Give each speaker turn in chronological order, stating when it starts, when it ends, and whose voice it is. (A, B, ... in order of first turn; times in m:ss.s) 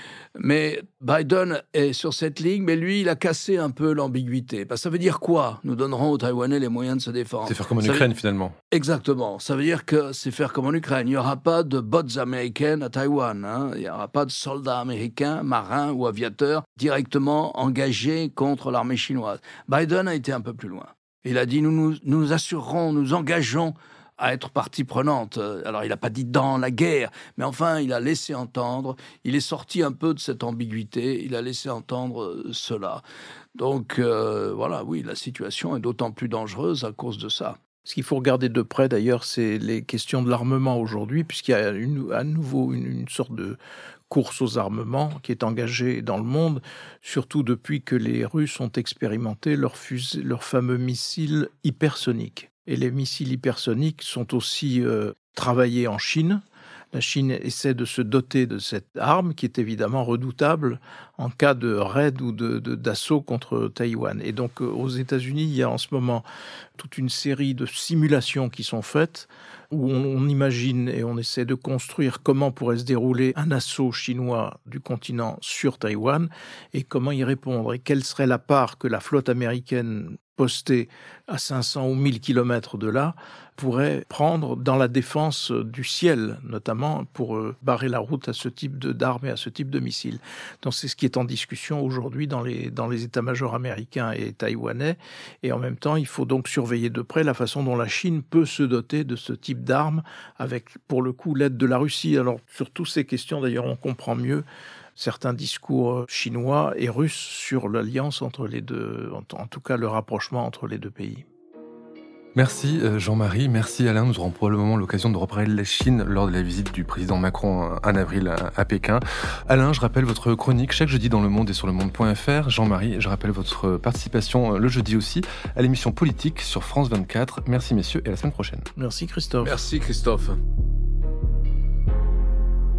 0:00.4-0:08.1 A
0:07.4-0:08.6 B
0:08.7-0:33.0 A
0:33.5-0:37.6 A
0:37.8-0:43.6 C
0:44.1-1:06.2 C
1:06.8-1:44.4 C
1:45.0-1:51.2 C
1:52.3-2:08.6 B
2:08.8-2:09.6 C
2:09.4-2:10.4 A